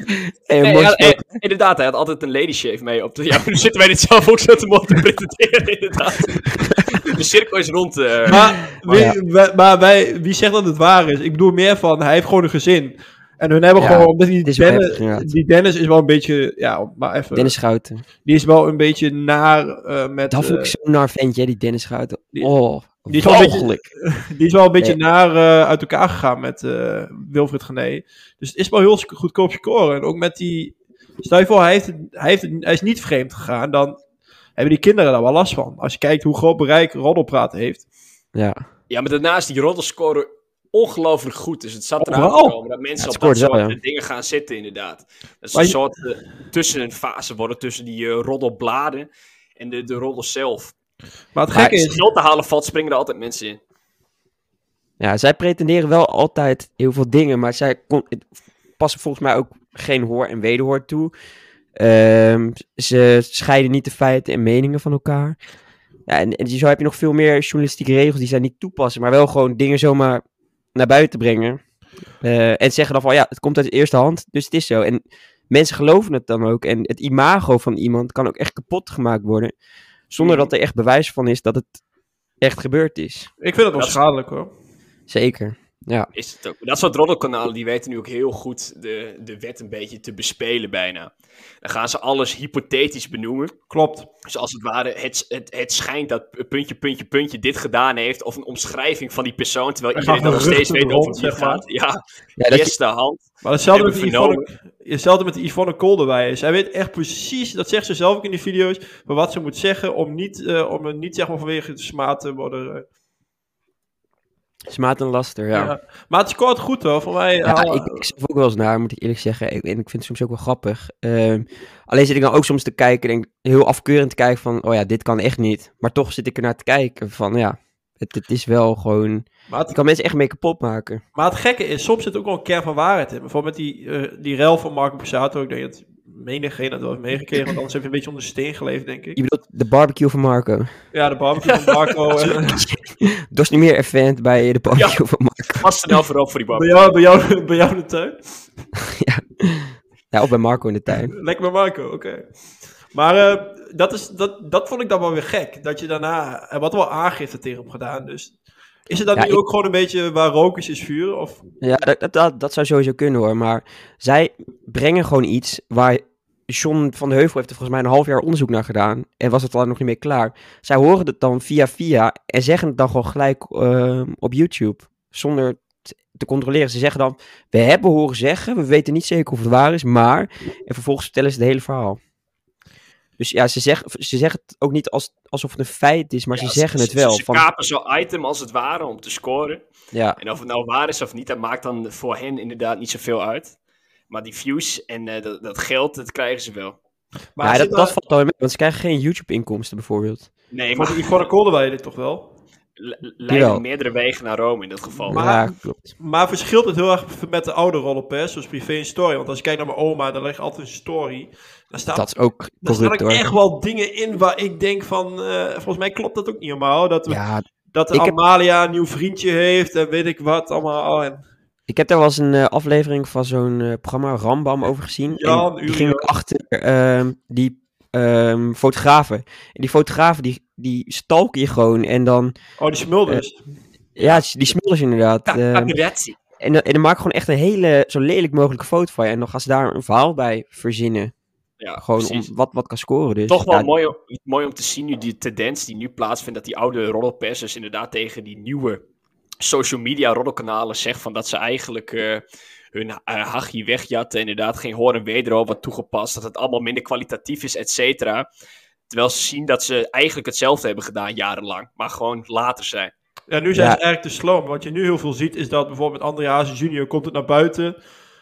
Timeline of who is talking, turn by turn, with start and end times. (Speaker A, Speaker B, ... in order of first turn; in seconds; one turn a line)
Speaker A: 0.1-1.2
Speaker B: 0.6-8.7
Speaker C: 8.3-17.5
Speaker A: 8.9-9.2
Speaker A: 13.8-15.3
Speaker A: 17.3-18.0
Speaker C: 18.2-20.7
Speaker A: 20.3-23.8
Speaker C: 23.1-34.0
Speaker C: 34.6-37.8
Speaker A: 38.3-38.6
Speaker B: 38.9-50.7
Speaker C: 42.0-42.5
Speaker A: 43.0-43.8
Speaker C: 51.3-52.0
Speaker B: 51.6-53.6
Speaker A: 55.0-58.3
Speaker A: 58.8-61.1
Speaker A: 61.8-65.3
Speaker A: 66.1-70.2
Speaker A: 70.7-71.6
Speaker A: 72.2-79.5
Speaker A: 80.1-81.8
Speaker B: 80.2-80.5
Speaker A: 82.4-83.3
Speaker C: 83.4-84.5
Speaker B: 83.7-84.0
Speaker A: 85.1-86.1
Speaker B: 86.1-91.1
Speaker B: 91.6-93.5
Speaker C: 93.7-94.1
Speaker B: 94.2-104.5
Speaker C: 99.9-101.6
Speaker A: 102.4-102.7
Speaker C: 103.4-112.8
Speaker A: 114.7-115.7
Speaker C: 115.5-118.0
Speaker A: 117.4-131.0
Speaker C: 129.5-129.8
Speaker C: 131.1-139.2
Speaker A: 139.2-140.7
Speaker C: 140.9-142.6
Speaker B: 141.5-141.9
Speaker A: 142.5-145.9
Speaker B: 144.7-145.0
Speaker B: 145.6-146.9
Speaker C: 146.5-148.2
Speaker A: 148.8-151.1
Speaker C: 150.9-152.2
Speaker C: 152.9-158.3
Speaker C: 158.9-161.4
Speaker A: 159.1-159.4
Speaker A: 161.6-182.0
Speaker A: 183.2-187.4
Speaker B: 186.3-189.6
Speaker A: 189.9-190.2
Speaker B: 190.2-193.5
Speaker B: 194.1-196.8
Speaker C: 197.3-197.9
Speaker A: 197.4-200.3
Speaker B: 200.5-201.2
Speaker C: 200.7-202.3
Speaker B: 202.8-205.2
Speaker A: 203.3-203.6
Speaker C: 205.1-212.1
Speaker A: 205.1-205.9
Speaker A: 211.9-213.2
Speaker C: 212.6-217.2
Speaker A: 217.1-218.2
Speaker C: 217.7-221.2
Speaker A: 221.7-232.3
Speaker C: 225.1-226.1
Speaker C: 232.6-233.4
Speaker A: 233.9-235.7
Speaker B: 234.0-234.5
Speaker B: 235.3-236.2
Speaker A: 236.4-241.1
Speaker B: 241.6-242.3
Speaker A: 241.8-243.7
Speaker B: 243.3-248.8
Speaker B: 249.4-252.2
Speaker B: 252.7-258.3
Speaker B: 258.9-262.9
Speaker C: 263.3-267.8
Speaker A: 263.5-263.8